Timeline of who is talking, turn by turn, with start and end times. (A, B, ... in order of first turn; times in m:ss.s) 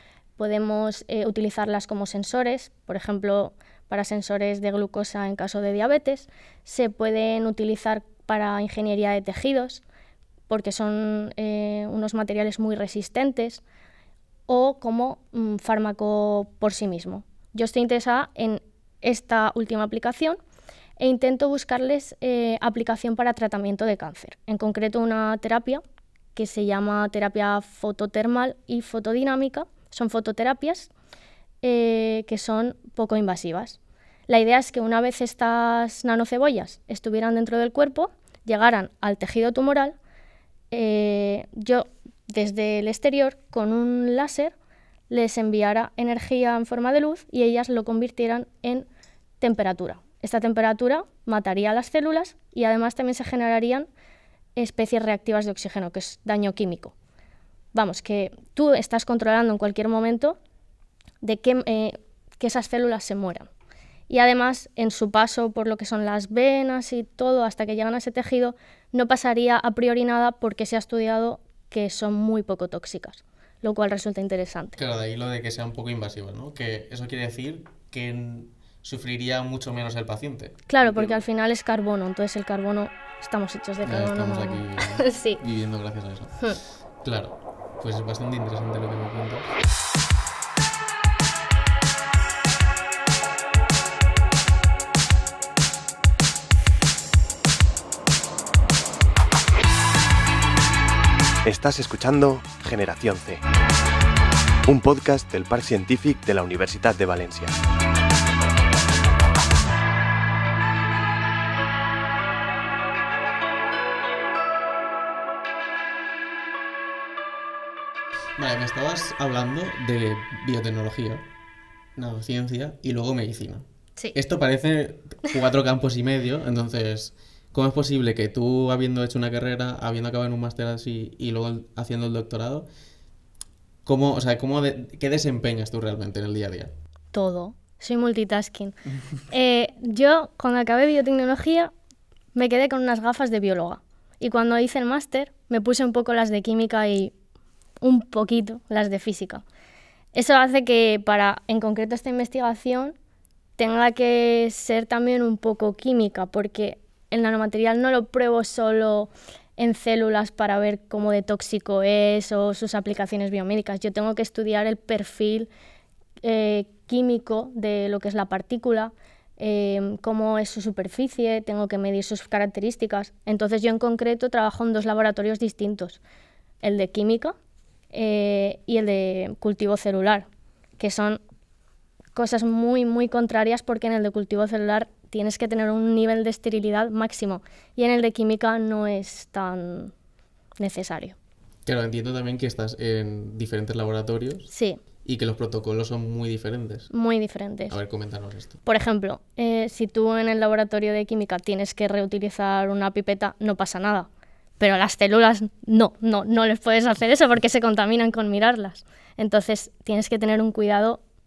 0:00.4-0:09.8 A
0:10.5-0:13.6 A
0:14.5-0:20.4 A
0:21.0-0:25.8 A
0:26.4-0:30.9 A
0:31.6-0:40.0 A
0:40.7-0:44.6 A
0:45.1-0:48.9 A
0:49.4-0:53.9 A
0:54.6-0:56.9 A
0:57.7-1:00.4 A
1:01.2-1:03.5 A
1:04.1-1:14.8 A
1:14.8-1:21.2 B
1:20.7-1:25.4 A
1:23.8-1:26.5 B
1:27.0-1:29.6 B
1:41.4-1:43.4 C
1:44.7-1:47.6 C
1:58.4-2:01.2 B
2:02.0-2:12.7 B
2:13.8-2:16.7 B
2:17.1-2:18.7 A
2:19.3-2:21.7 A
2:22.4-2:27.1 A
2:27.8-2:29.4 A
2:30.1-2:33.0 A
2:33.6-2:45.5 A
2:46.2-2:56.0 A
2:56.6-2:57.4 A
2:57.9-3:00.3 A
3:00.8-3:01.2 A
3:02.2-3:09.9 A
3:10.6-3:11.2 A
3:11.7-3:14.5 B
3:14.5-3:14.8 A
3:15.0-3:16.9 B
3:16.9-3:17.8 A
3:17.7-3:18.6 B
3:18.6-3:31.0 A